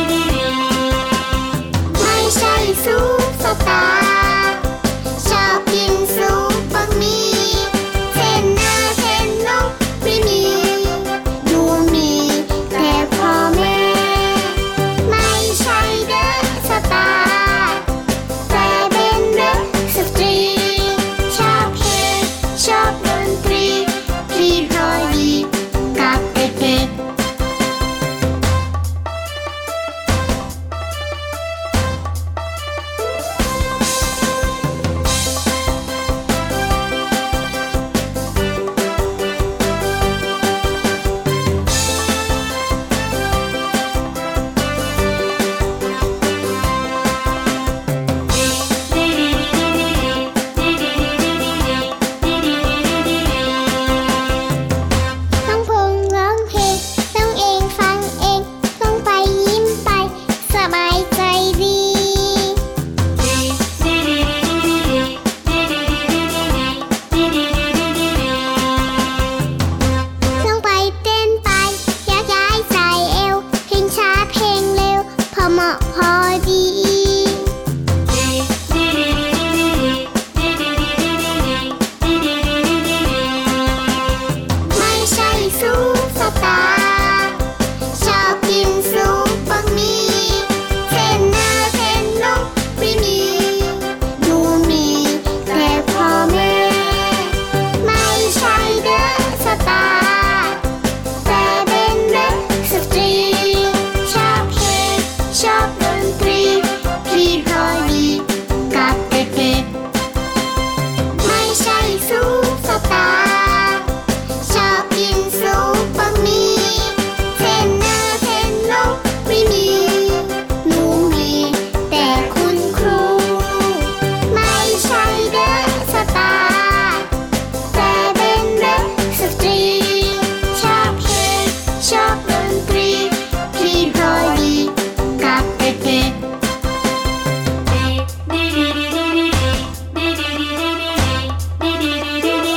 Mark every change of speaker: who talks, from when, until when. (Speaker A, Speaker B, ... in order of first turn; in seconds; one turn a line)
Speaker A: 1.9-17.9
Speaker A: 18.4-26.9
Speaker A: 55.4-62.6
Speaker A: 70.3-77.5
Speaker A: 84.6-100.6
Speaker A: 101.2-109.7
Speaker A: 111.1-127.1
Speaker A: 127.7-136.2